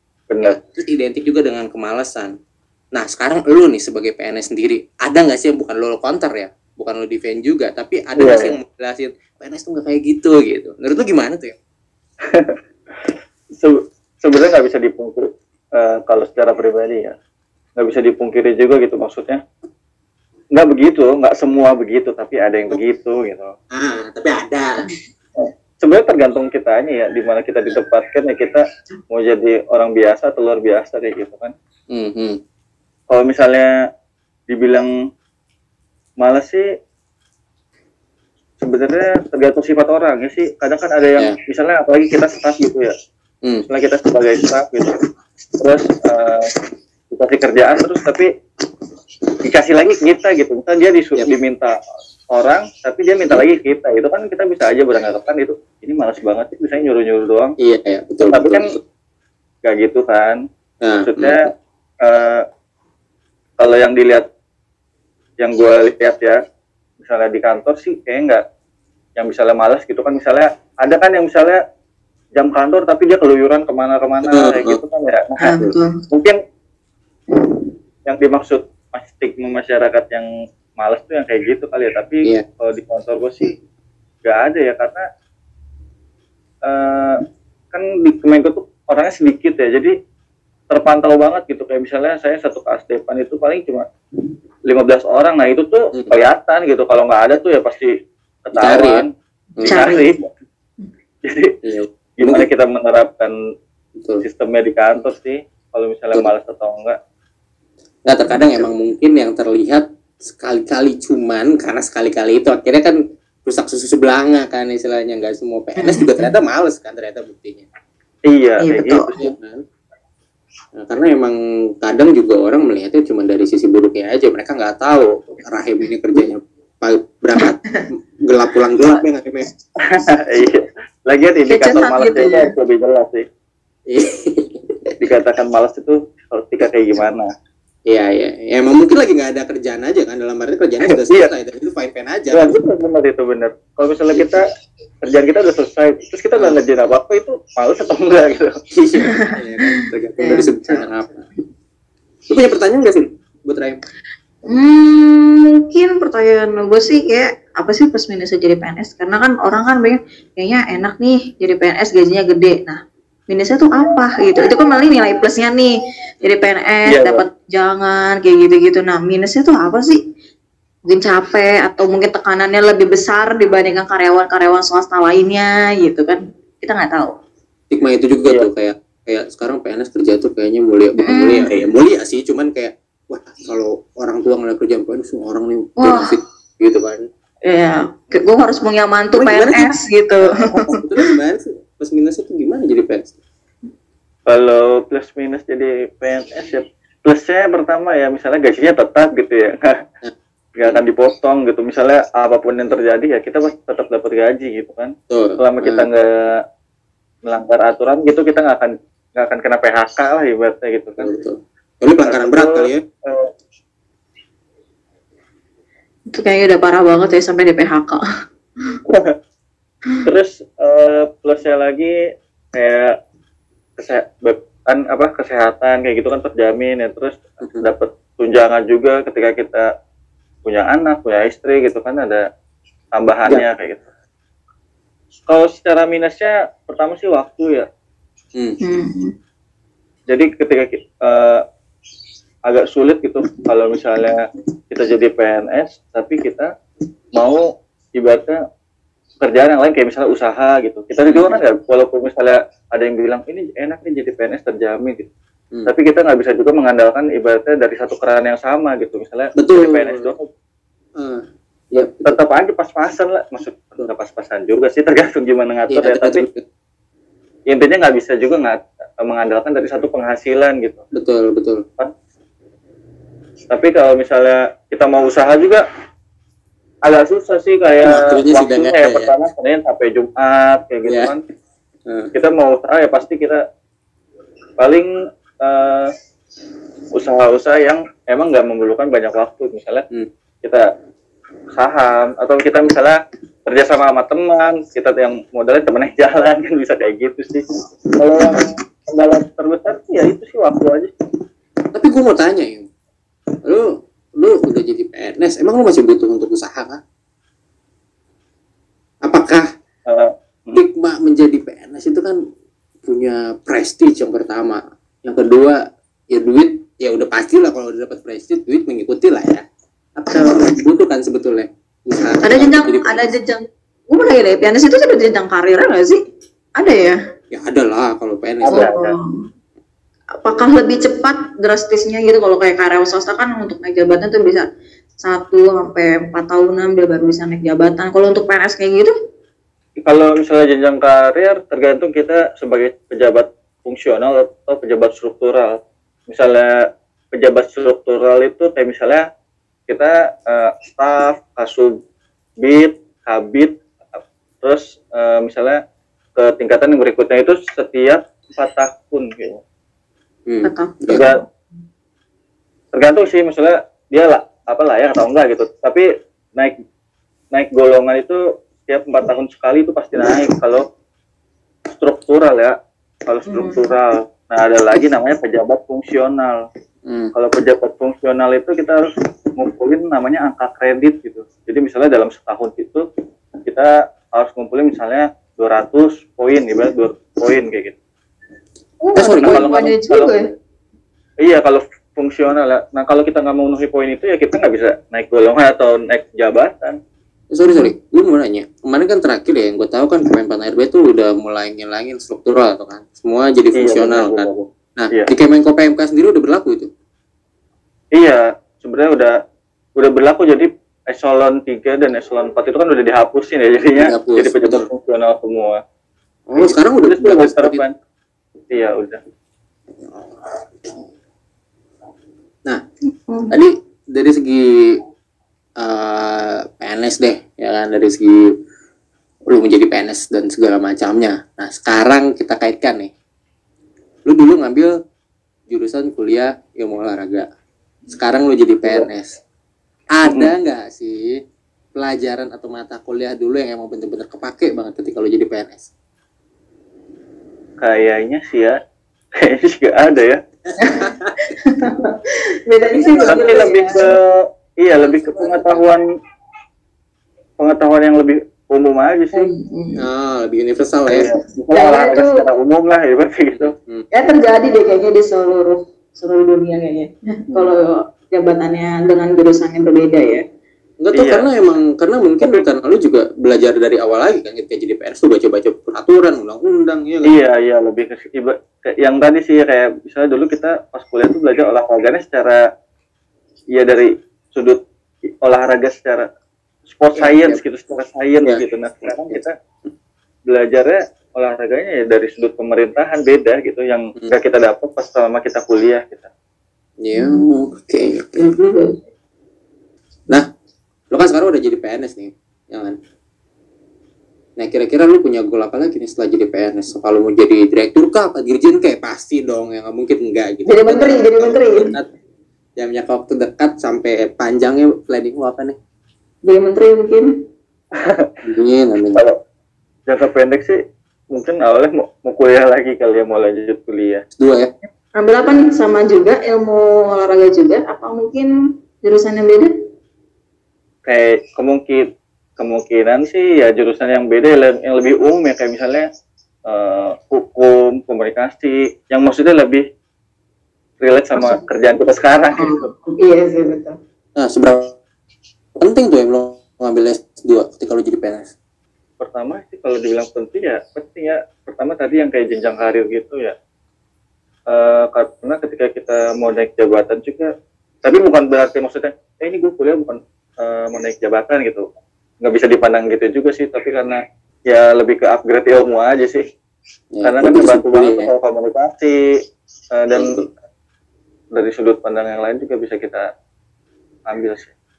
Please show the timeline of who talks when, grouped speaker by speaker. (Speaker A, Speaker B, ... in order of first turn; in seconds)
Speaker A: 0.3-0.6, 8.2-8.6, 12.3-17.2, 17.8-19.4, 20.5-23.5, 25.4-31.5, 33.1-33.7, 34.5-34.9, 36.2-36.7, 38.6-42.9, 43.6-44.9, 45.6-46.5, 47.1-48.3, 49.4-51.8, 52.3-57.5, 58.2-58.7, 59.6-60.4, 61.0-61.5, 62.0-62.4, 63.6-64.2, 65.4-66.4, 67.0-68.4, 69.2-71.6, 72.3-76.4, 78.0-83.5, 84.2-85.0, 86.6-87.2, 87.7-89.9, 90.7-93.8, 94.7-97.9, 98.5-99.1, 99.6-100.3, 101.2-101.5, 102.2-103.3, 104.2-107.0, 118.3-119.3, 129.8-133.2, 135.0-137.3, 140.9-141.3, 142.3-144.4, 145.0-148.5, 166.8-167.2, 194.3-199.8, 200.6-206.3, 207.2-211.1, 212.0-213.3, 218.9-219.1, 220.0-221.9, 222.5-222.9, 223.8-229.7, 230.4-232.2, 232.9-233.8, 235.3-237.7, 240.1-241.4, 242.5-246.5, 247.1-247.4, 247.9-248.4, 249.2-255.1, 255.7-260.3, 262.0-266.2, 267.5-270.8, 273.5-275.6, 276.8-281.2, 282.1-283.4, 284.6-284.9, 285.4-285.9, 286.9-289.8, 291.5-300.9, 309.9-310.6, 328.4-329.0, 339.8-345.6, 346.1-346.5, 347.1-349.0, 349.7-351.8, 352.4-353.6, 354.4-355.6, 356.1-359.4, 360.9-361.2, 362.7-366.6, 367.3-370.6, 371.7-376.4, 377.1-382.8, 383.4-387.8, 389.2-390.2, 391.2-396.8, 403.5-405.1, 407.9-409.1, 409.8-415.6, 416.4-417.7, 418.5-419.0, 440.0-440.3, 447.6-448.6, 449.2-450.2, 452.8-455.8, 457.4-459.3, 460.9-463.5, 470.9-471.3, 477.0-482.4, 483.5-484.6, 485.2-486.1, 486.7-489.3, 490.3-496.1, 517.8-518.1, 519.9-520.6, 521.1-524.0, 530.9-535.9, 536.5-539.6, 540.8-542.7, 549.0-553.3, 554.5-557.3, 557.8-561.6, 562.2-566.2, 567.0-569.0, 569.7-570.1, 571.3-573.0, 574.1-574.5
Speaker B: 0.4-2.3, 3.0-11.6, 23.7-24.7, 31.9-32.4, 57.6-58.6, 60.8-61.4, 74.2-74.8, 98.5-99.0, 99.6-99.9, 101.6-102.5, 108.0-117.7, 119.2-119.6, 120.8-129.5, 133.9-135.0, 137.9-142.5, 148.7-151.2, 152.3-153.8, 177.7-187.1, 189.2-189.8, 190.3-193.1, 205.1-205.8, 211.0-212.8, 251.1-251.4, 259.4-260.1, 260.9-262.2, 265.7-266.4, 270.9-271.6, 277.8-279.1, 280.9-281.1, 301.7-302.7, 303.4-306.8, 309.0-309.4, 310.5-312.2, 312.9-315.6, 316.1-319.4, 319.9-323.1, 327.3-328.7, 360.2-361.0, 376.9-377.1, 388.9-389.6, 397.3-406.7, 413.8-414.7, 416.3-417.6, 419.9-420.9, 423.3-424.8, 425.6-428.3, 429.3-432.9, 434.0-434.7, 435.5-437.3, 437.9-439.2, 439.9-441.1, 441.7-445.7, 450.5-451.1, 452.7-453.9, 454.7-455.6, 459.8-461.1, 463.3-463.9, 467.3-467.6, 470.8-477.1, 486.9-487.4, 488.2-489.2, 496.8-498.3, 500.9-502.8, 504.4-511.9, 512.6-515.6, 518.2-519.0, 524.1-524.5, 544.1-544.7, 545.6-548.3, 566.9-568.1, 569.9-570.3
Speaker C: 75.4-76.0, 99.6-100.1, 115.8-116.3, 118.6-119.1, 127.3-127.8, 131.5-132.5, 149.1-150.9, 154.5-170.0, 170.9-177.1, 181.0-181.5, 185.8-186.2, 187.4-191.1, 216.1-218.0, 238.6-239.1, 320.1-320.5, 322.2-326.0, 326.6-327.0, 328.5-329.2, 330.2-334.4, 335.0-338.9, 360.4-361.2, 373.3-373.7, 388.8-390.2, 397.5-397.7, 423.1-423.3, 450.6-453.8, 459.1-459.8, 461.5-462.2, 463.9-470.2, 496.9-497.2, 498.2-498.8, 510.4-511.7, 516.2-517.1, 525.0-528.3, 528.8-529.5, 541.1-541.4, 542.4-543.8